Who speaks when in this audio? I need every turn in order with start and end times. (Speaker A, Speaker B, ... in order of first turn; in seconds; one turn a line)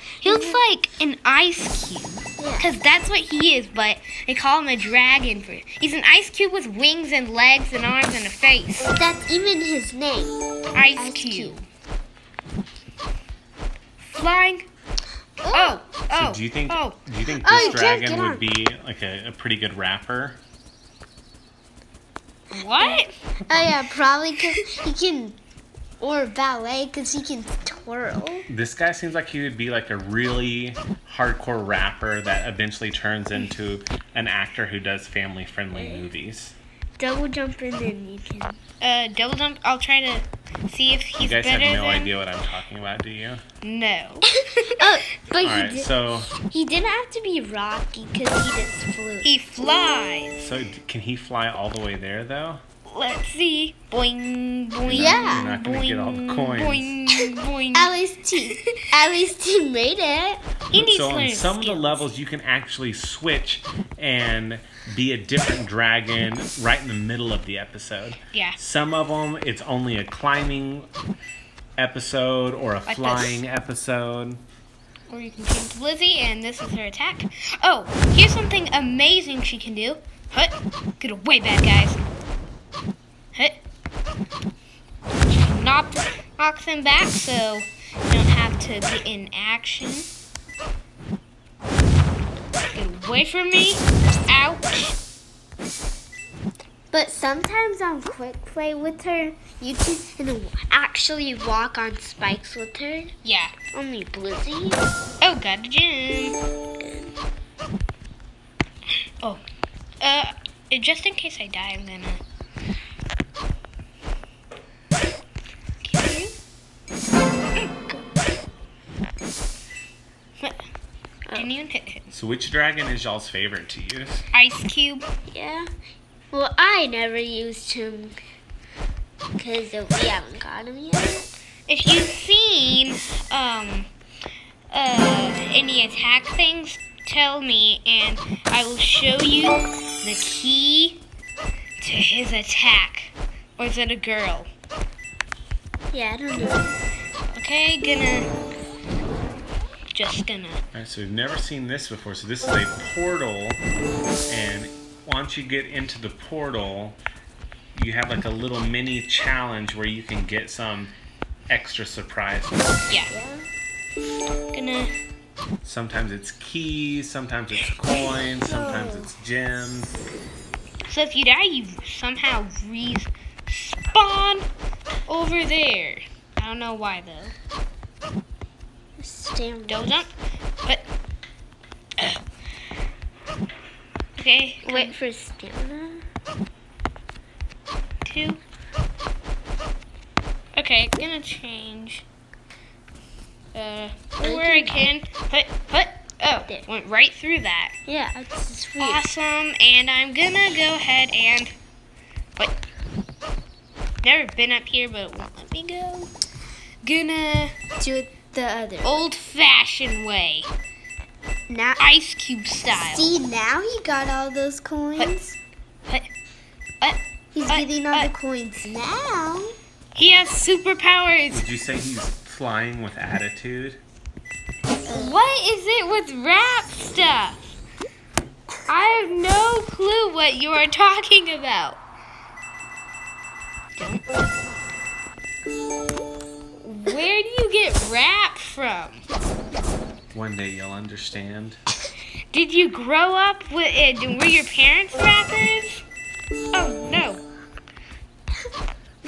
Speaker A: 0.2-8.9
Speaker B: 0.2-0.6
Speaker B: 2.4-2.7
Speaker B: 9.0-10.4
Speaker A: 10.7-11.7
Speaker B: 11.0-11.6
Speaker A: 14.0-14.7
Speaker B: 15.4-15.8
Speaker A: 15.5-17.8
Speaker C: 16.1-20.4
Speaker B: 17.4-18.5
Speaker A: 22.5-23.1
Speaker B: 22.8-25.4
Speaker B: 26.0-28.5
Speaker C: 28.5-36.6
Speaker B: 35.7-36.1
Speaker B: 37.0-38.6
Speaker A: 38.8-42.1
Speaker C: 41.2-43.4
Speaker A: 43.6-44.8
Speaker B: 44.8-49.3
Speaker C: 45.4-46.3
Speaker A: 49.2-50.5
Speaker C: 50.4-52.6
Speaker A: 52.9-58.7
Speaker C: 54.8-57.0
Speaker B: 54.9-55.5
Speaker B: 57.7-60.4
Speaker A: 60.7-62.1
Speaker C: 60.7-70.9
Speaker C: 71.8-74.4
Speaker A: 72.9-73.4
Speaker A: 75.1-82.0
Speaker A: 83.3-83.6
Speaker A: 85.3-90.1
Speaker A: 92.7-95.0
Speaker B: 96.9-103.1
Speaker A: 103.2-103.5
Speaker B: 103.7-104.8
Speaker A: 105.2-106.4
Speaker B: 106.8-107.2
Speaker A: 110.0-112.2
Speaker A: 115.8-116.3
Speaker A: 117.6-117.9
Speaker A: 121.3-122.1
Speaker C: 122.1-124.3
Speaker A: 124.3-125.0
Speaker B: 125.3-125.7
Speaker B: 126.3-128.2
Speaker B: 129.4-131.3
Speaker A: 131.7-133.9
Speaker A: 134.7-141.0
Speaker A: 141.8-144.5
Speaker B: 145.9-146.8
Speaker A: 147.3-148.3
Speaker A: 149.9-150.6
Speaker C: 150.7-153.6
Speaker C: 154.3-157.0
Speaker C: 157.7-160.9
Speaker C: 161.5-162.9
Speaker A: 162.9-163.2
Speaker B: 163.1-163.5
Speaker A: 164.5-164.9
Speaker C: 165.6-170.0
Speaker B: 168.3-169.1
Speaker A: 170.9-174.4
Speaker A: 175.1-177.3
Speaker B: 179.0-180.1
Speaker A: 179.7-180.1
Speaker A: 184.2-184.9
Speaker B: 184.6-186.1
Speaker A: 188.0-188.4
Speaker A: 190.6-192.1
Speaker A: 193.5-197.7
Speaker B: 194.2-194.9
Speaker B: 197.9-199.1
Speaker A: 198.8-201.5
Speaker A: 204.0-206.1
Speaker A: 206.8-207.5
Speaker B: 207.8-209.1
Speaker A: 208.8-210.5
Speaker B: 211.5-211.9
Speaker A: 211.8-213.1
Speaker B: 212.8-215.4
Speaker A: 216.8-218.1
Speaker B: 217.3-219.6
Speaker A: 219.9-221.4
Speaker C: 221.3-223.8
Speaker B: 224.9-225.2
Speaker A: 224.9-227.6
Speaker A: 228.7-231.8
Speaker A: 233.8-234.0
Speaker A: 236.6-239.1
Speaker C: 240.1-241.6
Speaker A: 242.3-245.8
Speaker A: 246.5-247.2